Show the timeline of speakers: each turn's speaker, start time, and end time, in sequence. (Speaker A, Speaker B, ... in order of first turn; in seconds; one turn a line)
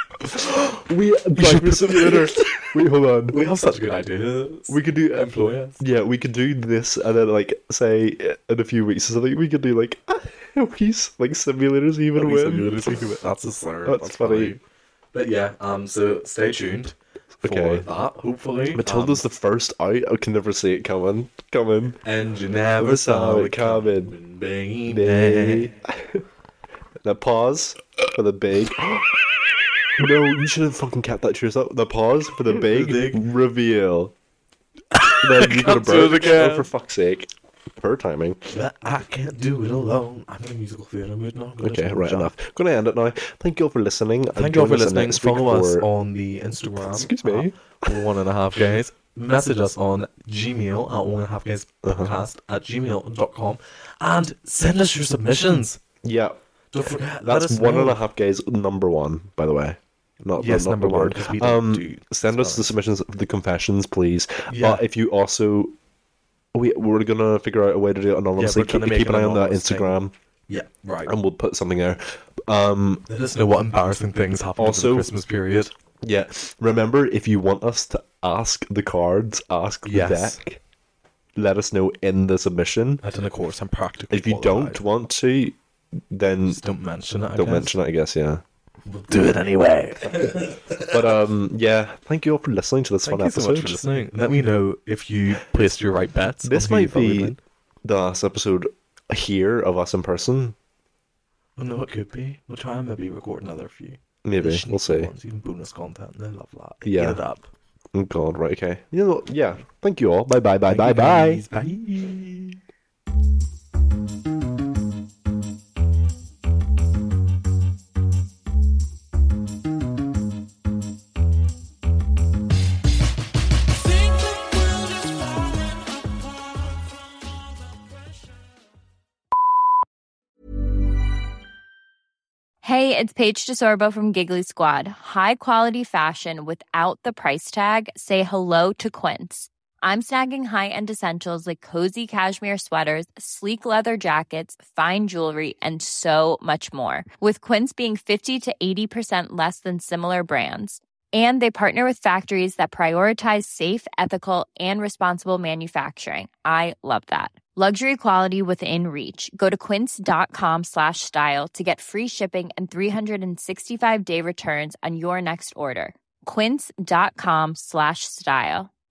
Speaker A: 0.3-3.4
Speaker B: 0.3-0.8
Speaker B: 1.4-2.7
Speaker B: 3.3-5.8
Speaker A: 4.7-12.8
Speaker B: 12.2-14.6
Speaker A: 13.9-14.6
Speaker B: 15.1-19.3
Speaker A: 17.4-17.9
Speaker A: 18.8-22.0
Speaker B: 22.0-25.7
Speaker A: 22.8-24.2
Speaker A: 24.9-26.2
Speaker A: 27.0-29.1
Speaker A: 30.0-34.1
Speaker B: 32.5-33.2
Speaker B: 34.9-36.7
Speaker A: 35.2-38.4
Speaker B: 38.5-42.4
Speaker A: 41.6-45.9
Speaker B: 44.3-55.8
Speaker A: 46.9-48.1
Speaker A: 51.8-52.2
Speaker A: 56.0-56.4
Speaker B: 56.7-58.0
Speaker A: 57.2-65.8
Speaker B: 60.4-62.7
Speaker B: 64.5-64.8
Speaker A: 66.5-70.1
Speaker B: 68.4-71.1
Speaker A: 71.1-73.0
Speaker B: 73.1-75.7
Speaker A: 74.6-75.1
Speaker A: 76.0-80.6
Speaker B: 79.8-80.4
Speaker A: 81.4-83.0
Speaker B: 83.0-84.8
Speaker A: 84.1-86.6
Speaker B: 86.5-87.7
Speaker A: 87.4-88.4
Speaker B: 88.9-91.0
Speaker A: 90.8-93.8
Speaker B: 93.0-97.4
Speaker A: 96.4-100.6
Speaker B: 101.6-107.5
Speaker A: 104.2-105.1
Speaker A: 106.8-107.2
Speaker A: 107.9-111.4
Speaker B: 110.7-112.6
Speaker C: 132.6-168.7